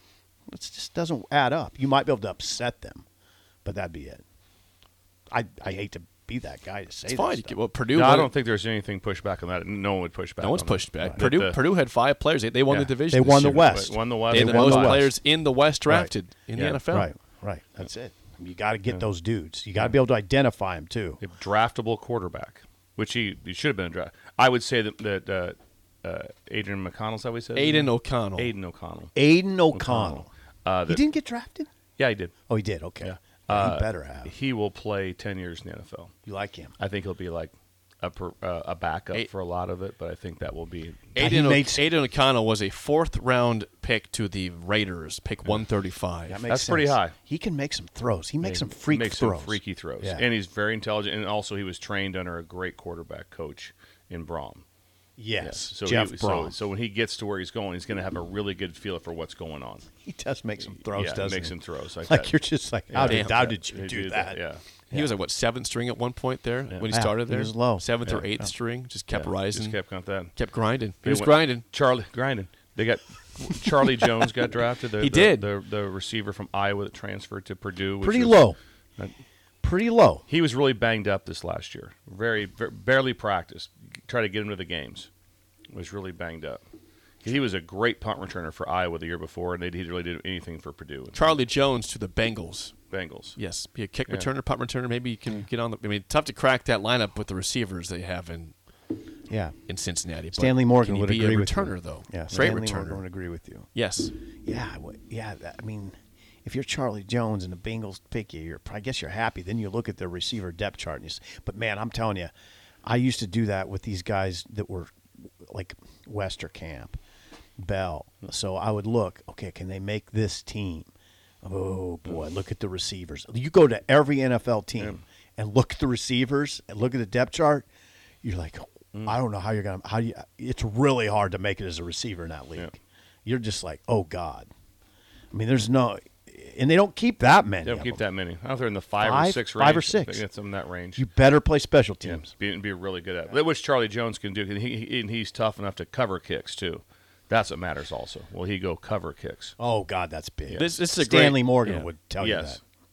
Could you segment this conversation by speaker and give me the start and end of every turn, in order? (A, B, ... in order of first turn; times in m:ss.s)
0:00.5-0:03.0 A
0:03.6-0:04.2 A
0:05.3-0:07.6 A
0:07.1-0:08.3 B
0:07.9-0:11.6 C
0:10.4-0:13.8 B
0:12.7-0:15.0 C
0:13.1-0:15.1 A
0:14.3-0:17.1 B
0:15.9-0:16.1 A
0:16.6-0:16.8 C
0:16.9-0:21.2 A
0:21.2-0:29.1 C
0:27.6-0:28.5 B
0:29.2-0:30.3 A
0:29.7-0:31.0 C
0:30.9-0:31.7 A
0:32.0-0:32.3 C
0:32.5-0:34.3 A
0:33.0-0:36.1 C
0:36.3-0:36.8 A
0:36.8-0:41.2 C
0:41.2-0:41.8 A
0:41.2-0:46.4 B
0:46.3-0:50.3 A
0:46.5-0:47.2 C
0:48.4-0:54.6 C
0:55.2-0:56.6 A
0:55.4-0:59.8 C
1:00.0-1:05.1 A
1:00.8-1:02.3 C
1:02.9-1:04.7 C
1:03.0-1:03.5 B
1:04.9-1:09.8 B
1:06.9-1:08.5 A
1:09.1-1:10.3 C
1:10.4-1:11.6 B
1:11.0-1:18.4 C
1:15.0-1:15.5 B
1:18.0-1:18.6 A
1:19.6-1:20.2 A
1:20.3-1:25.1 C
1:25.7-1:26.6 C
1:27.2-1:31.4 C
1:31.1-1:32.8 B
1:32.9-1:33.4 C
1:33.4-1:38.6 B
1:39.3-1:39.6 A
1:39.7-1:43.0 B
1:40.4-1:43.7 A
1:43.7-1:44.1 B
1:44.4-1:52.3 A
1:52.9-1:54.9 A
1:55.4-1:57.0 A
1:57.6-2:00.9 A
2:01.4-2:07.7 A
2:08.2-2:14.5 A
2:15.3-2:18.0 A
2:17.6-2:21.0 C
2:19.0-2:20.2 A
2:21.0-2:22.3 A
2:22.0-2:29.6 C
2:29.6-2:32.6 A
2:30.6-2:31.9 B
2:32.2-2:32.6 C